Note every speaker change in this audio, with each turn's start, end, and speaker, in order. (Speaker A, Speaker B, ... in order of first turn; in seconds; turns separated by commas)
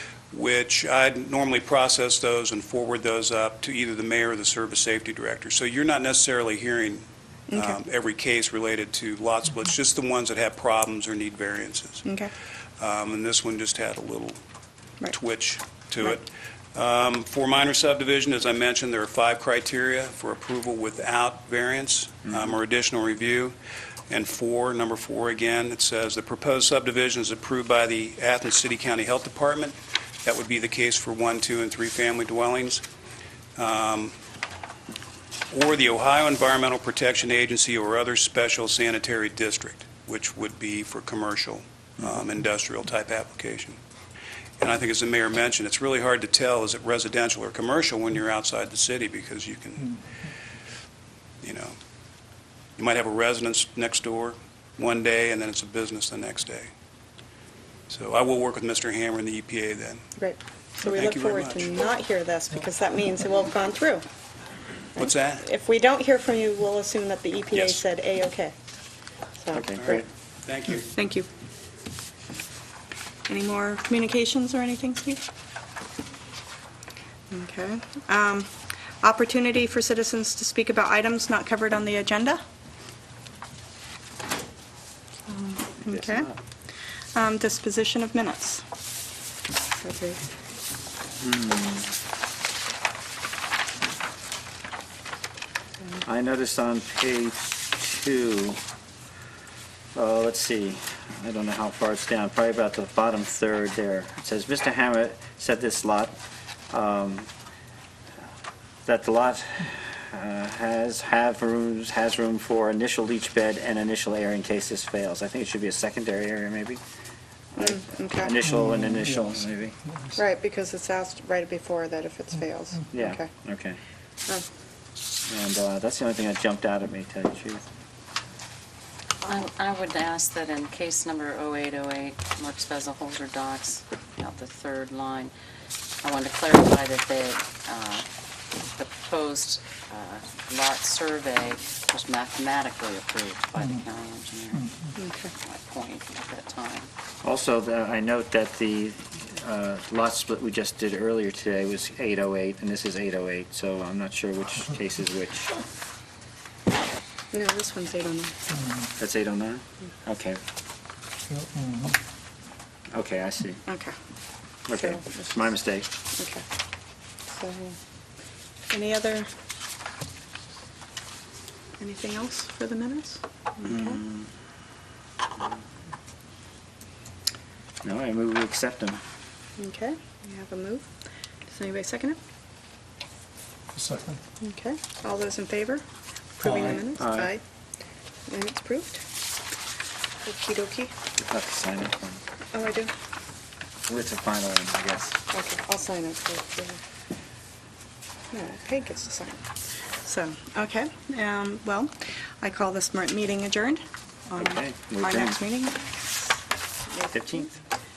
Speaker A: 0.3-12.1, Speaker B: 7.5-7.8, Speaker B: 12.0-12.3, Speaker A: 12.8-14.4, Speaker A: 15.1-23.6, Speaker A: 24.1-32.8, Speaker A: 33.5-34.1, Speaker A: 35.5-43.8, Speaker A: 44.6-50.0, Speaker A: 51.4-51.8, Speaker A: 52.8-56.7, Speaker A: 57.9-60.0, Speaker B: 60.2-64.0, Speaker A: 60.8-61.8, Speaker A: 65.0-65.5, Speaker B: 65.0-68.5, Speaker A: 67.5-67.8, Speaker B: 69.4-70.0, Speaker C: 69.5-70.0, Speaker A: 69.8-70.9, Speaker B: 70.9-71.3, Speaker B: 73.3-75.2, Speaker B: 77.3-78.5, Speaker B: 79.0-82.4, Speaker B: 85.3-86.3, Speaker C: 85.8-86.3, Speaker B: 87.1-88.6, Speaker B: 89.8-90.2, Speaker C: 91.2-91.9, Speaker C: 96.0-98.6, Speaker C: 99.9-106.2, Speaker C: 106.7-107.3, Speaker C: 108.8-116.8, Speaker C: 117.5-119.8, Speaker B: 117.6-118.3, Speaker B: 120.1-123.3, Speaker C: 122.9-123.8, Speaker C: 125.3-127.7, Speaker D: 129.2-135.3, Speaker D: 136.0-138.1, Speaker D: 138.7-144.9, Speaker B: 145.0-145.3, Speaker D: 145.4-146.9, Speaker C: 147.2-155.6, Speaker B: 157.3-158.7, Speaker C: 158.9-160.4, Speaker C: 162.9-163.6, Speaker B: 163.7-163.9, Speaker C: 164.7-165.9, Speaker B: 164.7-165.0, Speaker B: 166.2-166.4, Speaker B: 167.3-167.8, Speaker B: 168.7-169.3, Speaker B: 171.8-174.0, Speaker C: 173.6-174.3, Speaker C: 177.8-179.0, Speaker B: 179.6-180.9, Speaker B: 181.5-182.2, Speaker B: 184.4-185.8, Speaker B: 186.4-187.4, Speaker C: 186.8-187.3, Speaker B: 188.3-189.0, Speaker B: 190.2-190.9, Speaker C: 191.2-192.2, Speaker B: 192.5-192.9, Speaker C: 193.8-195.2, Speaker B: 195.3-196.8, Speaker B: 198.3-199.4, Speaker B: 200.0-206.0, Speaker C: 204.3-205.4, Speaker C: 207.1-207.5